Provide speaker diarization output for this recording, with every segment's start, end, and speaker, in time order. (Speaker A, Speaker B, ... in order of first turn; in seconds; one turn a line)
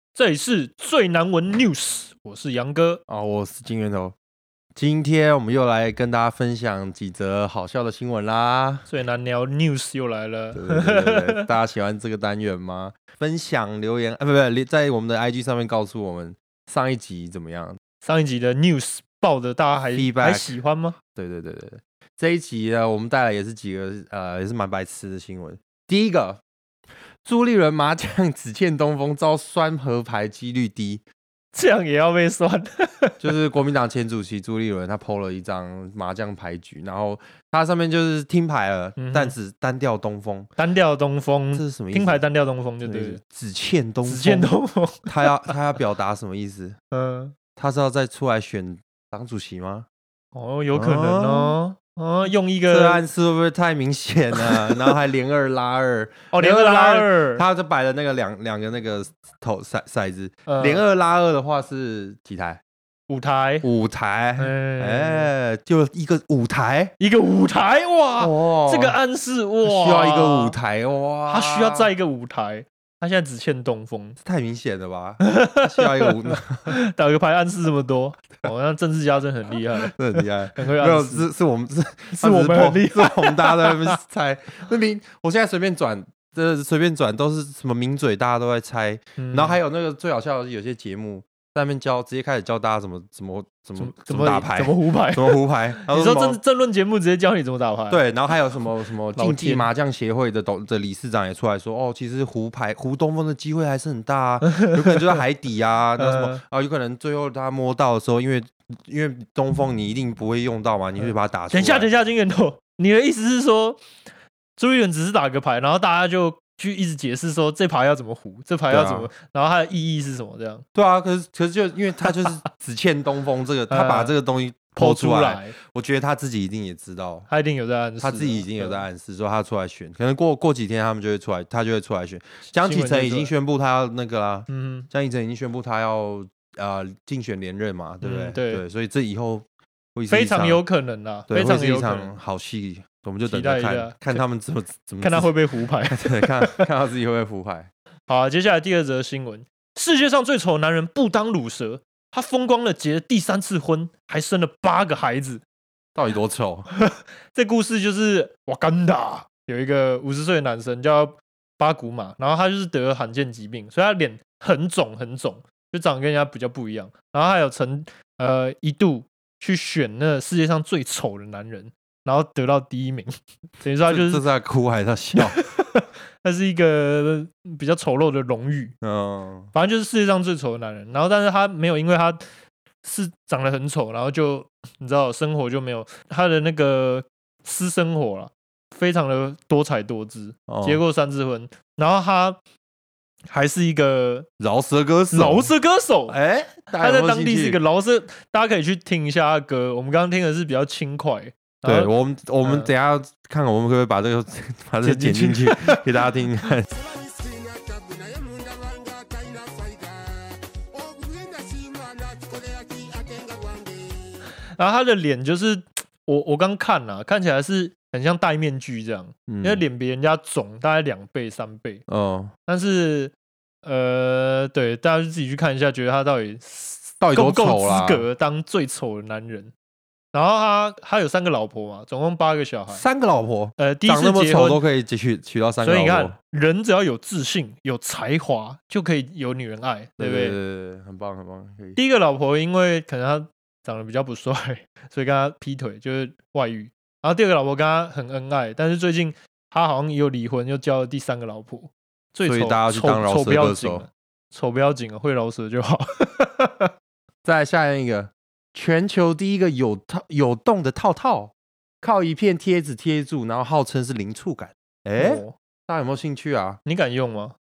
Speaker A: 0.1-3.0
Speaker B: 3.1-4.2
Speaker B: 4.8-8.9
Speaker A: 8.9-11.5
Speaker B: 10.5-17.8
Speaker A: 18.0-21.0
Speaker B: 19.9-20.6
Speaker B: 21.1-26.4
Speaker B: 27.2-31.0
Speaker A: 31.5-33.2
Speaker B: 33.2-40.5
Speaker A: 39.0-39.4
Speaker A: 40.6-43.2
Speaker B: 41.5-42.2
Speaker B: 42.8-44.5
Speaker A: 44.0-45.5
Speaker B: 45.1-46.8
Speaker A: 46.9-47.4
Speaker B: 47.6-49.9
Speaker A: 50.3-53.0
Speaker B: 50.7-51.6
Speaker B: 52.7-62.6
Speaker A: 54.4-54.8
Speaker A: 56.3-57.4
Speaker A: 60.5-60.8
Speaker A: 63.1-63.7
Speaker B: 63.6-66.9
Speaker A: 64.4-65.3
Speaker A: 67.0-70.6
Speaker B: 68.2-69.0
Speaker B: 69.6-71.9
Speaker A: 71.3-74.2
Speaker B: 74.2-76.8
Speaker A: 75.2-81.3
Speaker B: 79.9-96.4
Speaker A: 82.2-84.0
Speaker A: 89.2-89.6
Speaker A: 93.8-98.1
Speaker B: 97.9-111.9
Speaker A: 99.2-99.7
Speaker A: 106.0-106.4
Speaker A: 111.0-113.8
Speaker A: 114.6-120.7
Speaker B: 118.7-119.1
Speaker B: 120.7-127.3
Speaker A: 123.7-124.2
Speaker A: 124.8-125.5
Speaker A: 127.3-128.8
Speaker B: 128.0-140.6
Speaker A: 132.6-133.3
Speaker A: 134.5-134.9
Speaker A: 138.0-138.6
Speaker A: 140.1-142.1
Speaker B: 141.3-145.3
Speaker A: 143.3-144.2
Speaker A: 145.0-146.6
Speaker B: 145.9-147.7
Speaker A: 148.1-155.4
Speaker B: 155.9-156.7
Speaker A: 156.7-174.3
Speaker B: 173.9-175.4
Speaker A: 175.2-178.8
Speaker B: 178.8-179.5
Speaker A: 179.5-182.2
Speaker A: 182.8-192.4
Speaker B: 190.5-190.8
Speaker A: 193.3-194.3
Speaker B: 194.4-195.5
Speaker A: 195.1-196.2
Speaker B: 196.1-197.6
Speaker A: 196.8-201.9
Speaker B: 201.6-206.7
Speaker A: 202.4-202.7
Speaker A: 204.8-205.8
Speaker A: 214.6-221.8
Speaker B: 219.3-219.6
Speaker B: 221.9-222.3
Speaker A: 222.5-229.5
Speaker B: 227.0-228.1
Speaker A: 230.1-232.8
Speaker B: 232.7-236.2
Speaker A: 233.6-234.6
Speaker A: 235.6-240.4
Speaker B: 240.0-241.8
Speaker A: 241.8-256.7
Speaker B: 252.3-253.9
Speaker B: 257.2-266.6
Speaker A: 265.0-265.4
Speaker A: 266.6-267.4